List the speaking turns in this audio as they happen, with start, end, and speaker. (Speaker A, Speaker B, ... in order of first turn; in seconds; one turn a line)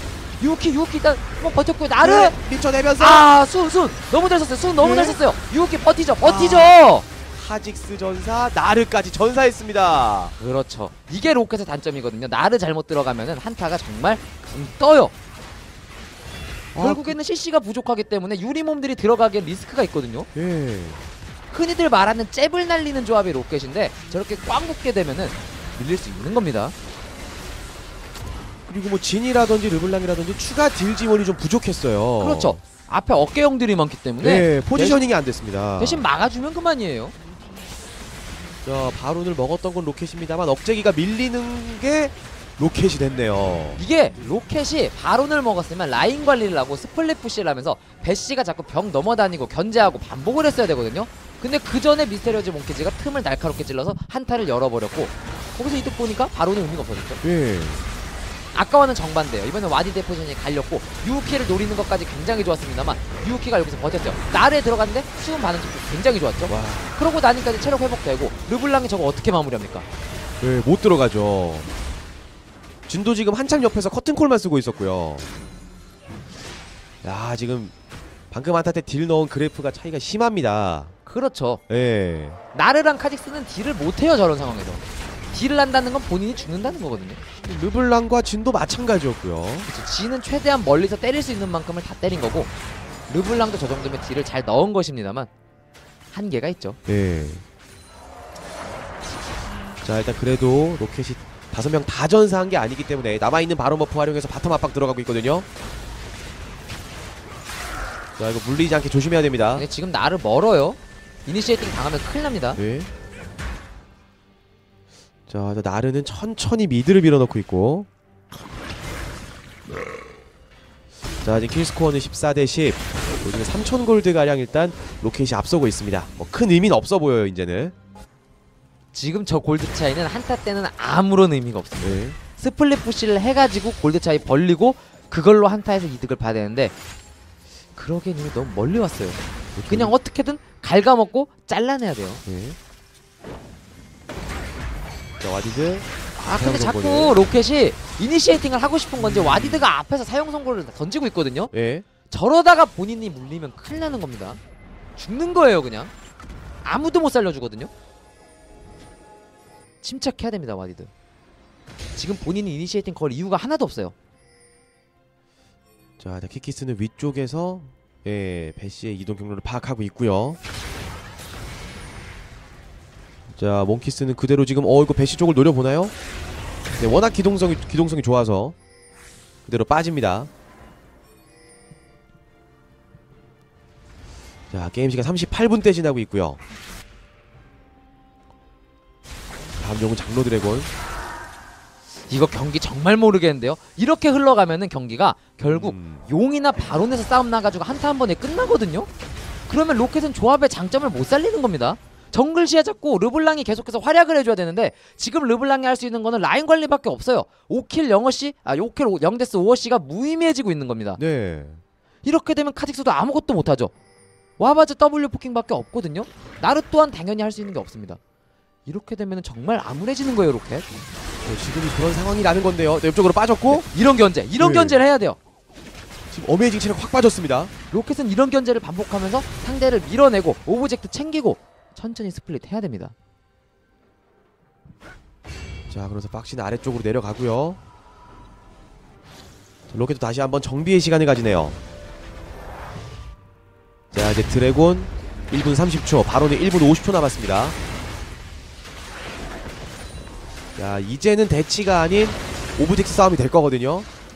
Speaker A: 0.4-2.3
Speaker B: 2.0-3.3
Speaker A: 3.0-7.0
Speaker B: 4.8-5.2
Speaker B: 6.2-6.8
Speaker B: 7.3-10.3
Speaker A: 10.4-15.1
Speaker B: 16.7-17.2
Speaker A: 16.8-20.3
Speaker B: 20.3-21.1
Speaker A: 21.5-26.7
Speaker B: 28.7-32.6
Speaker A: 32.2-35.0
Speaker B: 34.2-36.0
Speaker A: 35.8-37.1
Speaker B: 38.6-43.8
Speaker A: 43.8-57.2
Speaker B: 57.2-57.8
Speaker A: 58.5-69.9
Speaker B: 66.5-66.9
Speaker B: 70.4-71.7
Speaker B: 72.9-75.3
Speaker B: 77.0-77.7
Speaker B: 78.3-80.9
Speaker A: 81.0-81.6
Speaker B: 81.7-82.4
Speaker A: 82.5-87.2
Speaker B: 87.4-89.7
Speaker A: 89.7-92.5
Speaker A: 93.1-95.3
Speaker A: 96.1-96.8
Speaker B: 96.9-97.4
Speaker B: 99.8-105.5
Speaker B: 108.2-109.6
Speaker A: 109.5-112.6
Speaker B: 112.6-112.9
Speaker B: 115.3-117.9
Speaker B: 121.2-127.7
Speaker A: 128.9-136.7
Speaker B: 131.8-132.2
Speaker A: 137.8-142.2
Speaker B: 139.5-139.9
Speaker B: 142.2-142.6
Speaker B: 145.2-147.2
Speaker A: 146.2-151.5
Speaker B: 149.0-149.7
Speaker B: 151.5-151.8
Speaker A: 152.1-154.4
Speaker A: 155.0-155.9
Speaker A: 156.6-157.7
Speaker A: 159.8-160.9
Speaker A: 161.9-163.9
Speaker B: 166.0-170.4
Speaker B: 173.3-175.9
Speaker B: 176.8-178.6
Speaker B: 179.4-180.3
Speaker B: 184.5-186.4
Speaker B: 189.6-190.7
Speaker A: 192.1-198.9
Speaker B: 195.4-196.0
Speaker A: 199.5-211.0
Speaker B: 211.0-211.6
Speaker A: 212.0-213.7
Speaker A: 214.4-218.0
Speaker A: 218.7-220.7
Speaker B: 221.2-223.6
Speaker A: 223.5-225.2
Speaker B: 224.4-224.8
Speaker B: 226.1-227.5
Speaker A: 227.7-232.9
Speaker B: 235.7-237.6
Speaker B: 239.7-241.6
Speaker B: 243.9-247.6
Speaker B: 250.6-253.9